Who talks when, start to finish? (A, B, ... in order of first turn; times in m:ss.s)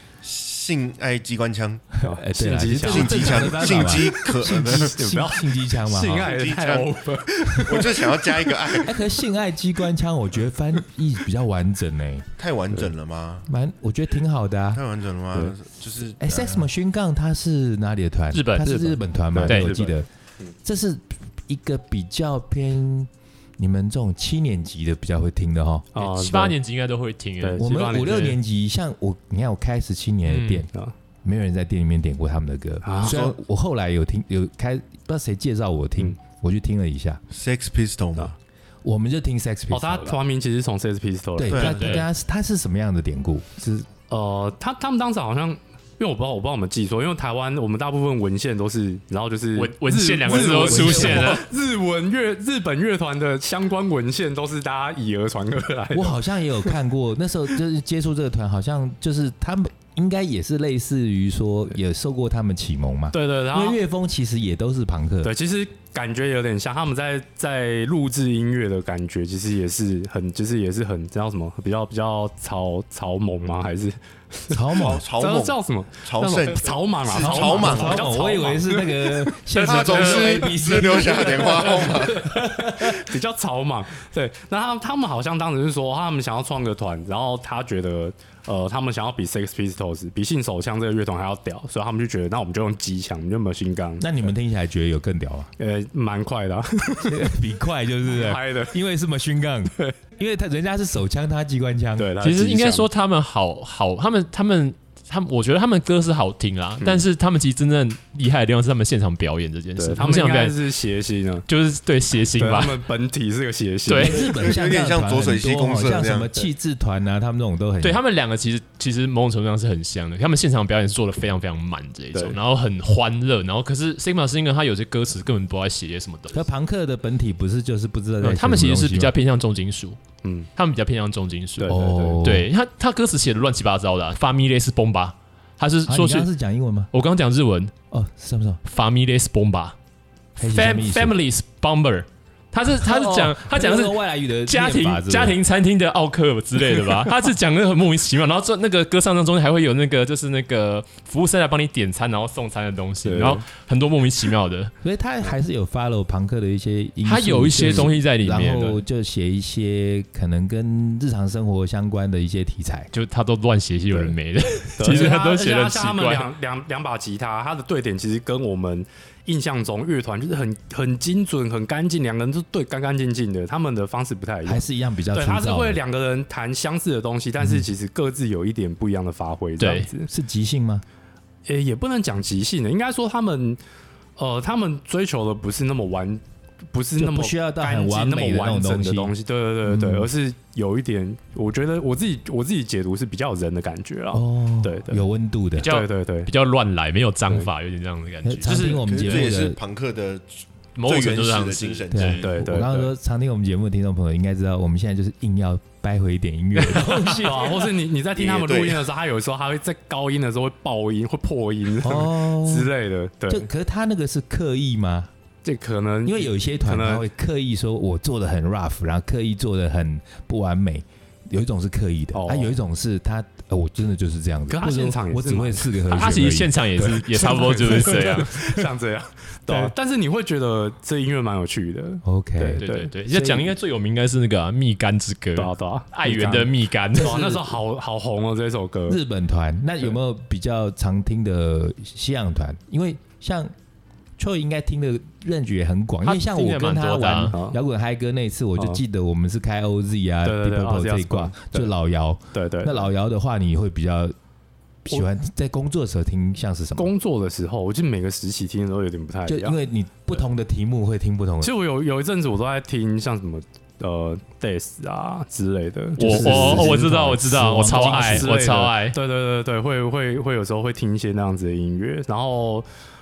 0:00.2-0:05.0 A
0:02.0-0:06.4 B
0:02.0-0:08.9 C
0:06.0-0:07.0 A
0:07.6-0:09.0 A
0:08.8-0:12.3 B
0:12.4-0:13.5 A
0:13.5-0:14.8 B
0:14.7-0:16.6 A
0:16.2-0:20.1 B
0:18.3-0:18.8 D
0:18.6-0:20.0 C
0:19.5-0:19.8 D
0:20.6-0:25.9 B
0:26.0-0:26.6 C
0:26.0-0:27.6 D
0:27.4-0:28.4 C
0:27.6-0:30.7 B
0:30.3-0:30.6 D
0:31.2-0:37.2 B
0:32.8-0:33.2 C
0:33.0-0:33.3 A
0:37.3-0:38.3 A
0:38.8-0:40.2 B
0:39.7-0:42.0 C
0:41.4-0:43.9 B
0:41.5-0:41.8 A
0:41.6-0:42.1 D
0:44.1-0:56.7 C
0:49.6-0:51.5 D
0:50.4-0:51.4 B
0:55.9-1:05.3 B
1:03.1-1:03.8 C
1:05.2-1:34.3 C
1:14.5-1:15.1 B
1:14.8-1:18.2 A
1:17.1-1:23.1 B
1:19.5-1:22.3 A
1:34.0-1:35.5 B
1:35.6-1:37.2 C
1:37.1-1:42.1 B
1:38.1-1:38.8 C
1:42.0-1:42.9 C
1:42.2-1:50.6 D
1:46.8-1:47.0 C
1:49.8-1:51.4 C
1:51.5-1:52.8 D
1:52.4-1:54.3 C
1:53.9-1:54.2 D
1:54.0-1:58.0 B
1:54.1-1:56.4 A
1:57.8-2:06.4 D
2:06.3-2:09.1 B
2:08.2-2:10.0 D
2:10.2-2:10.5 C
2:10.6-2:16.3 D
2:11.6-2:12.2 C
2:11.7-2:12.5 B
2:15.9-2:16.9 B
2:16.9-2:17.7 D
2:17.9-2:18.6 B
2:18.6-2:19.8 D
2:20.4-2:34.7 D
2:20.4-2:21.2 B
2:22.8-2:25.4 B
2:33.0-2:33.4 C
2:34.8-2:42.9 B
2:37.0-2:38.8 D
2:37.6-2:37.9 C
2:42.9-2:46.3 D
2:44.8-3:00.1 C
2:54.5-2:55.8 B
2:57.4-2:57.7 B
2:59.6-2:59.9 D
3:00.1-3:00.8 B
3:01.5-3:03.6 C
3:04.2-3:15.1 C
3:07.0-3:09.1 B
3:09.7-3:10.1 B
3:14.1-3:15.7 B
3:15.6-3:18.8 D
3:15.6-3:16.3 C
3:18.2-3:19.6 B
3:18.7-3:22.3 A
3:20.8-3:22.3 D
3:21.9-3:27.6 B
3:22.2-3:22.9 C
3:26.6-3:27.4 D
3:27.1-3:33.5 C
3:28.2-3:28.9 A
3:31.8-3:32.7 B
3:33.3-3:35.1 B
3:35.4-3:37.1 C
3:36.0-3:46.6 B
3:42.1-3:42.6 C
3:44.5-3:45.7 C
3:45.9-3:48.7 D
3:46.8-3:52.9 C
3:52.0-3:53.6 B
3:52.6-3:57.3 D
3:55.4-3:56.4 C
3:56.0-3:56.5 B
3:56.9-3:59.0 C
3:57.0-3:57.6 B
3:58.9-4:03.5 B
4:04.2-4:14.2 B
4:06.0-4:07.3 D
4:07.3-4:07.6 C
4:10.2-4:11.7 C
4:12.3-4:12.9 C
4:14.8-4:16.9 B
4:16.8-4:19.6 C
4:19.3-4:21.5 B
4:21.4-4:26.9 C
4:26.0-4:28.3 B
4:26.0-4:29.0 D
4:27.6-4:32.7 C